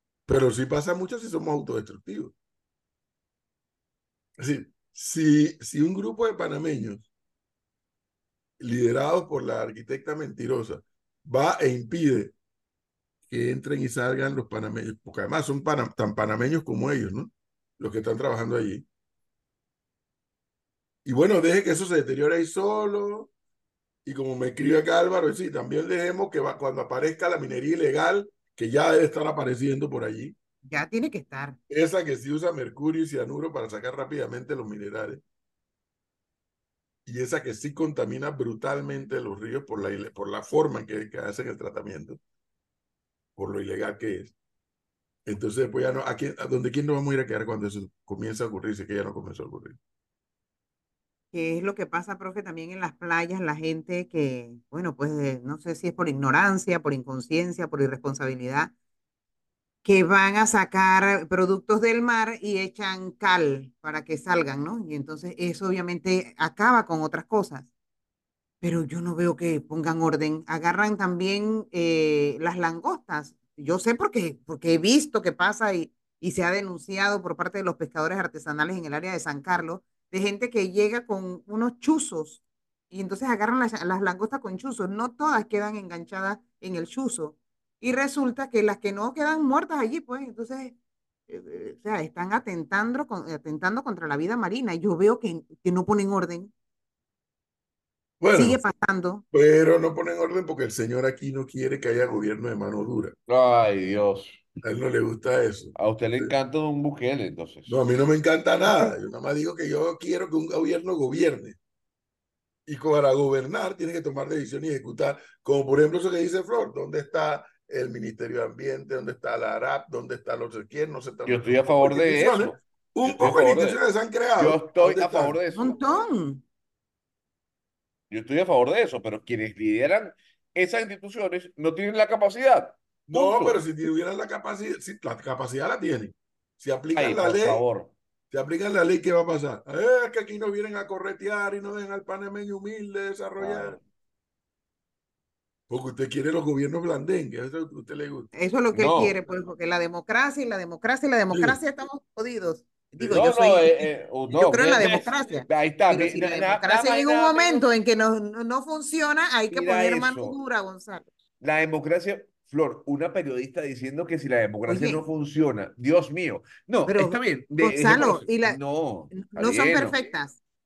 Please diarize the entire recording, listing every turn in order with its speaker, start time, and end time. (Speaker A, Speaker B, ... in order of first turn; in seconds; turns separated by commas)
Speaker A: 0.3-2.3, Speaker A: 4.4-7.1, Speaker A: 8.6-12.3, Speaker A: 13.3-18.8, Speaker A: 21.0-23.3, Speaker A: 24.0-30.3, Speaker B: 30.6-31.6, Speaker A: 31.7-35.2, Speaker A: 37.0-42.2, Speaker A: 43.4-44.3, Speaker A: 45.2-49.8, Speaker B: 51.3-58.7, Speaker B: 59.8-67.7, Speaker B: 68.6-90.7, Speaker B: 91.3-96.5, Speaker A: 98.2-98.6, Speaker B: 98.3-99.2, Speaker A: 99.3-103.2, Speaker C: 103.3-104.4, Speaker A: 104.6-106.3, Speaker C: 105.8-107.8, Speaker A: 107.7-111.6, Speaker B: 108.6-108.9, Speaker A: 112.7-125.4, Speaker C: 121.2-123.8, Speaker C: 124.4-125.8, Speaker B: 125.5-126.4, Speaker C: 128.1-133.6, Speaker A: 133.1-137.6, Speaker C: 136.9-137.9, Speaker A: 138.3-143.8, Speaker C: 143.4-143.8, Speaker A: 145.7-148.3, Speaker B: 148.3-161.1, Speaker C: 148.7-149.2, Speaker A: 151.3-151.6, Speaker C: 153.1-157.6, Speaker C: 159.5-160.4, Speaker C: 161.4-169.9, Speaker B: 164.7-165.0, Speaker B: 166.9-168.6, Speaker B: 169.1-170.4